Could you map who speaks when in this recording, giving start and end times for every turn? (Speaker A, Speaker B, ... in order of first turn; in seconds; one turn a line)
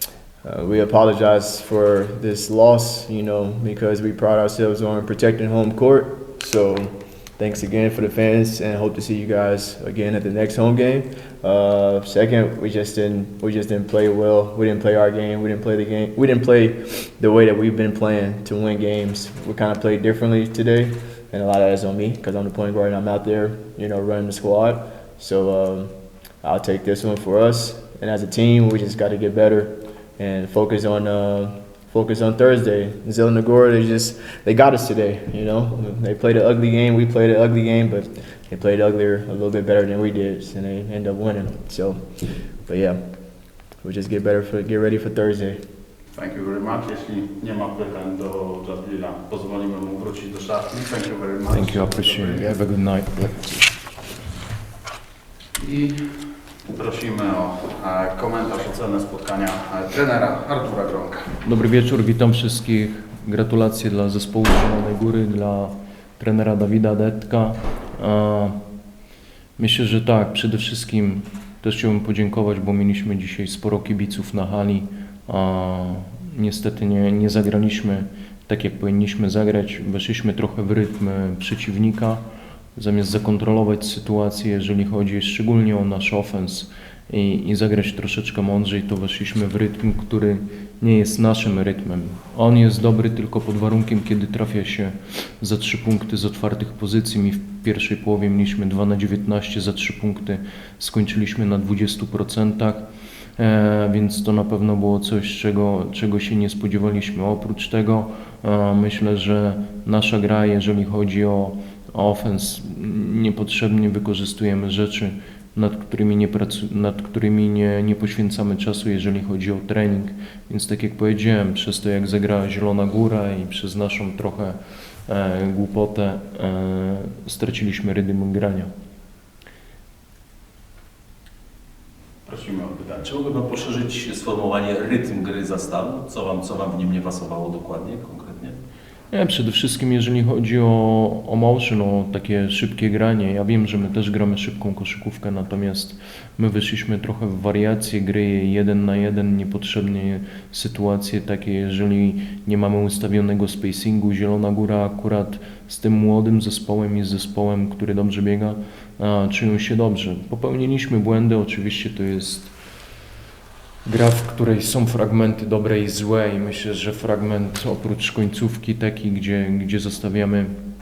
Speaker A: 0.4-45.7
Speaker B: 46.1-52.5
Speaker C: 51.5-53.7
Speaker B: 55.5-56.0
Speaker B: 56.7-61.2
Speaker C: 61.4-68.6
Speaker C: 69.6-82.2
Speaker C: 82.7-128.7
Speaker D: 132.3-138.6
Speaker C: 139.1-162.6
Speaker C: 163.8-170.6